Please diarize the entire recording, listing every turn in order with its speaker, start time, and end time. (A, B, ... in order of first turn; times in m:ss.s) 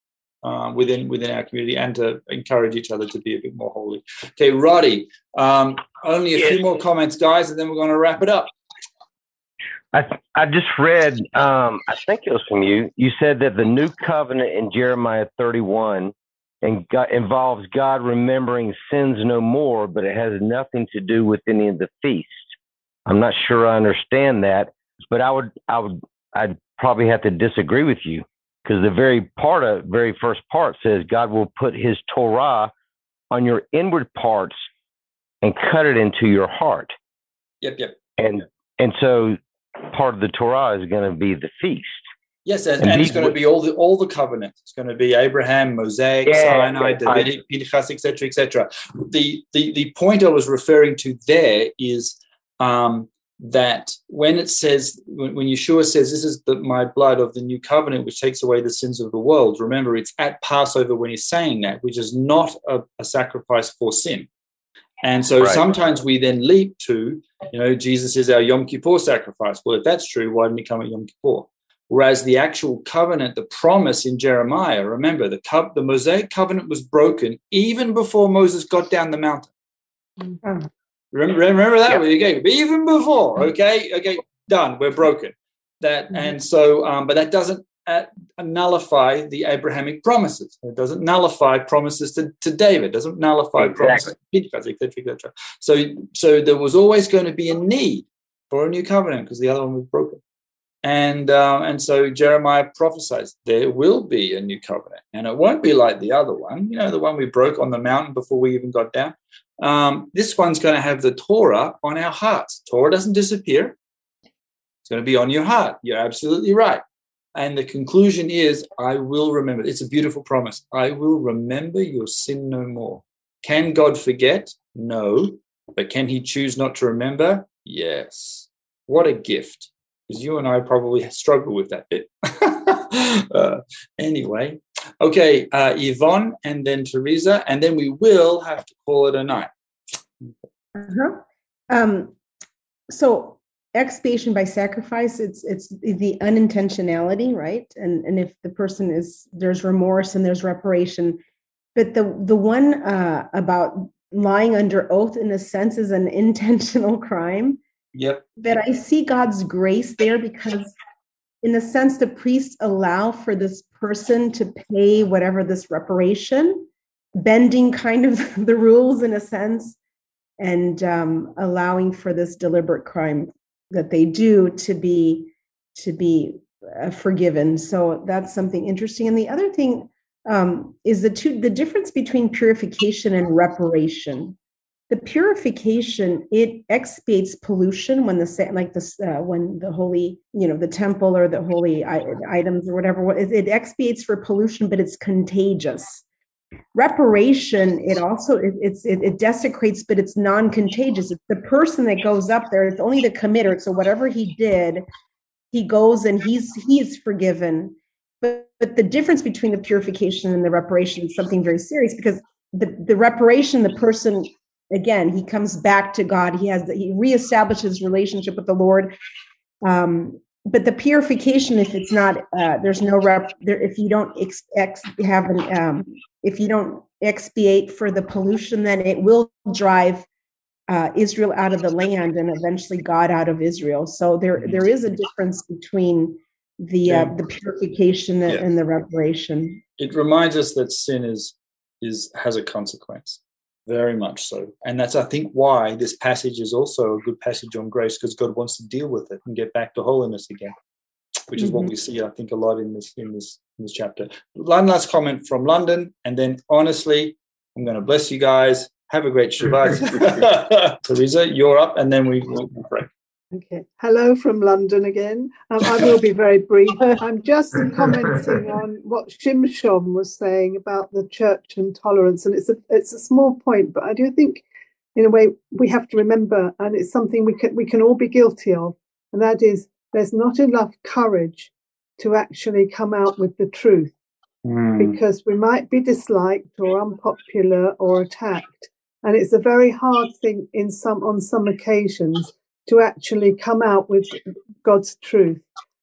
0:00.4-0:08.5 A
0:09.9-0:22.5 B
0:23.1-0:32.7 B
0:33.3-0:34.6 B
0:35.4-0:36.9 B
0:37.6-0:38.0 A
0:38.2-0:42.0 B
0:42.4-1:04.3 A
0:42.8-0:43.4 B
0:46.2-0:47.3 B
1:05.0-1:19.5 A
1:05.4-1:05.7 B
1:21.1-1:40.2 A
1:33.6-1:34.1 B
1:40.8-1:53.8 A
1:54.8-1:56.8 A
1:57.3-2:19.5 A
2:20.8-2:22.1 C
2:22.9-2:31.2 C
2:31.7-2:37.6 C
2:37.9-2:38.2 A
2:38.4-2:40.7 C
2:41.4-2:49.8 C
2:50.4-3:04.4 C
3:04.9-3:16.0 C
3:16.7-3:24.8 C
3:25.5-3:38.9 C
3:39.6-3:50.1 C
3:50.7-3:59.6 C
3:56.8-3:57.1 A
3:59.8-4:10.5 A
4:11.3-4:22.9 A
4:11.4-4:11.7 C
4:23.3-4:43.9 D
4:44.4-4:45.0 A
4:44.8-4:55.4 D